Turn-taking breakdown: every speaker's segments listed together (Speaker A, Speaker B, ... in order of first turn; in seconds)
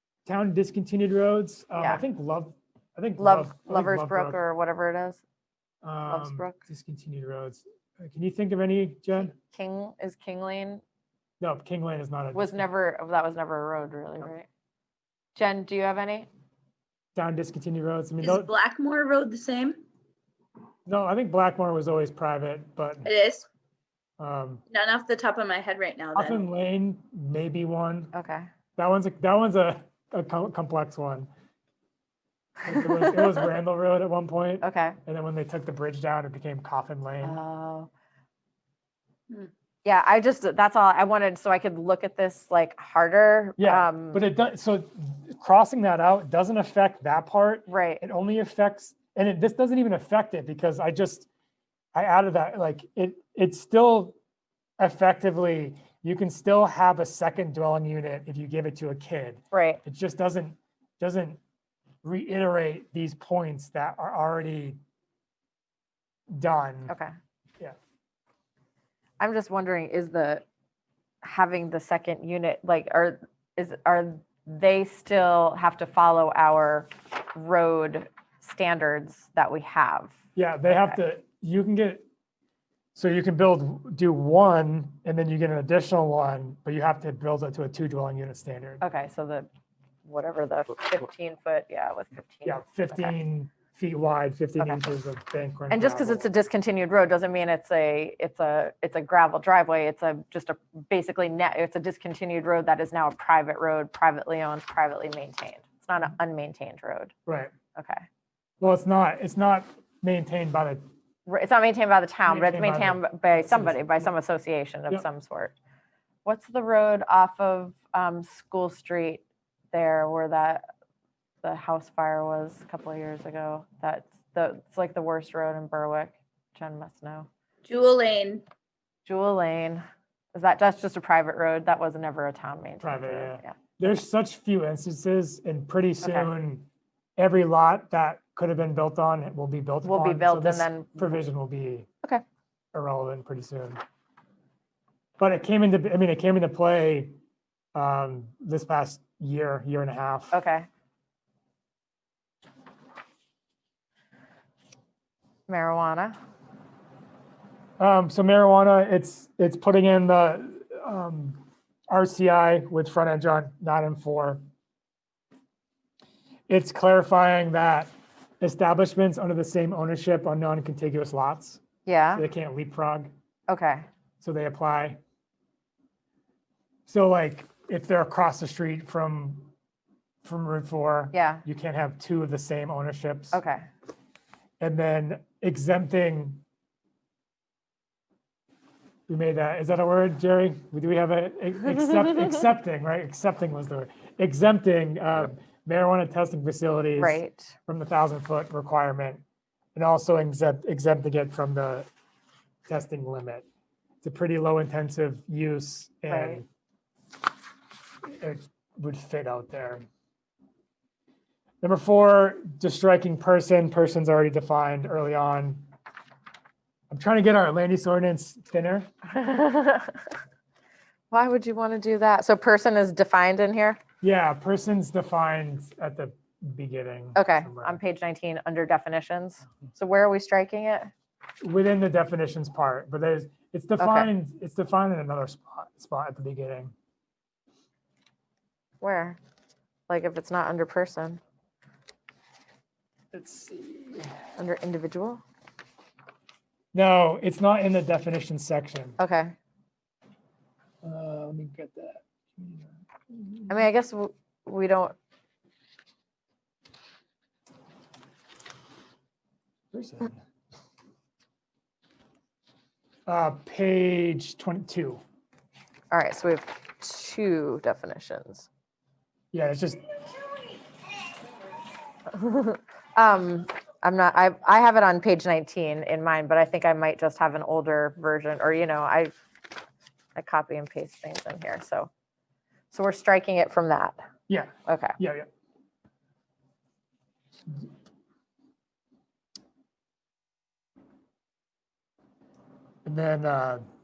Speaker A: 0.2-4.4, 5.8-9.3, 11.4-12.7, 17.1-18.5, 20.9-23.1, 24.2-24.6, 26.1-28.1, 28.8-31.3, 32.6-37.4, 43.6-51.3, 51.9-54.1, 54.8-61.4, 62.0-64.8, 66.3-66.9, 80.3-82.0, 82.9-88.8, 92.4-96.2, 107.3-107.5, 108.6-110.8, 112.3-114.1, 132.8-141.9, 142.7-143.8, 145.2-147.1, 147.7-150.3, 157.8-164.4, 166.5-171.6, 172.1-173.1, 174.2-175.0, 176.9-179.5, 180.2-183.4, 184.6-186.4, 189.1-199.2, 199.7-201.9, 202.7-203.4, 204.0-206.4, 208.1-209.8, 211.6-215.6, 216.9-218.9, 224.0-227.8, 231.4-236.7, 243.1-244.2, 246.7-249.0, 250.8-253.6, 259.7-260.2, 263.1-265.0, 269.3-269.8, 284.3-285.3, 292.8-293.6
Speaker B: 1.8-2.0, 3.2-5.2, 6.1-6.6, 9.3-10.8, 12.3-14.5, 15.3-16.3, 28.1-28.5, 32.7-33.4, 34.6-35.0, 37.2-37.9, 39.8-44.2, 47.7-48.0, 59.5-59.8, 66.9-67.1, 69.2-70.4, 71.2-81.0, 88.8-89.5, 90.0-93.2, 95.7-107.1, 107.7-108.0, 111.3-115.5, 116.2-120.7, 121.4-127.3, 129.0-133.6, 136.0-136.3, 139.8-141.2, 150.3-150.7, 155.5-156.2, 171.8-172.2, 173.5-173.8, 181.1-181.4, 183.3-183.6, 197.0-197.5, 206.1-206.4, 219.1-220.0, 221.1-223.8, 227.2-230.9, 233.8-234.1, 238.8-239.2, 239.9-241.2, 244.4-245.2, 249.0-249.3, 253.5-254.9, 265.9-268.5, 272.1-279.1, 280.1-281.9, 282.7-284.0, 284.6-285.0
Speaker C: 18.2-19.8, 23.0-23.4, 24.7-26.4, 127.6-128.4